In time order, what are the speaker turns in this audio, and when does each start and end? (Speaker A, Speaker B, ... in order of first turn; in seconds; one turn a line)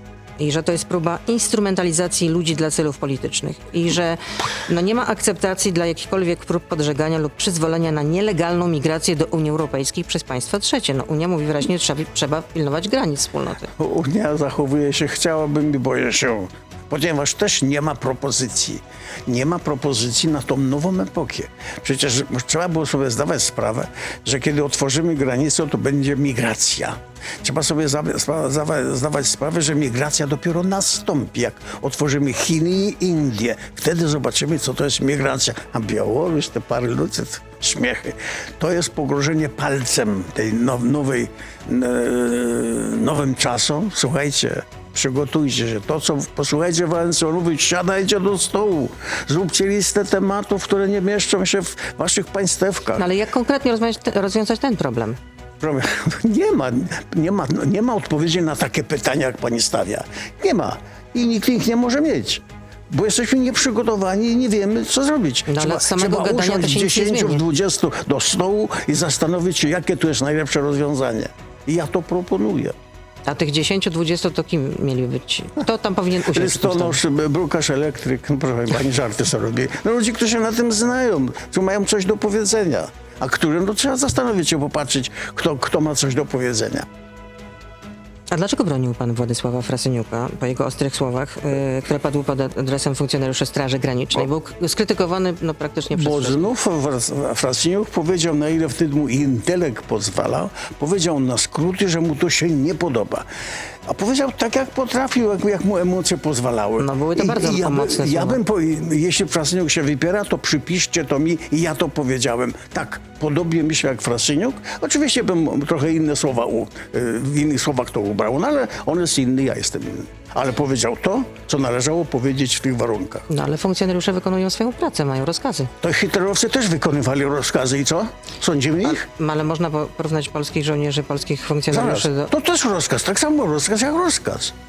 Speaker A: 0.4-13.7
Speaker B: 13.8-53.1
Speaker A: 53.0-55.2
Speaker B: 55.6-72.7
Speaker A: 65.5-67.4
Speaker A: 73.3-77.0
Speaker B: 76.3-86.9
Speaker A: 88.3-96.5
Speaker B: 95.9-103.2
Speaker B: 103.8-123.3
Speaker A: 106.8-108.4
Speaker A: 123.3-125.7
Speaker B: 125.8-129.1
Speaker A: 128.8-132.3
Speaker B: 131.7-134.5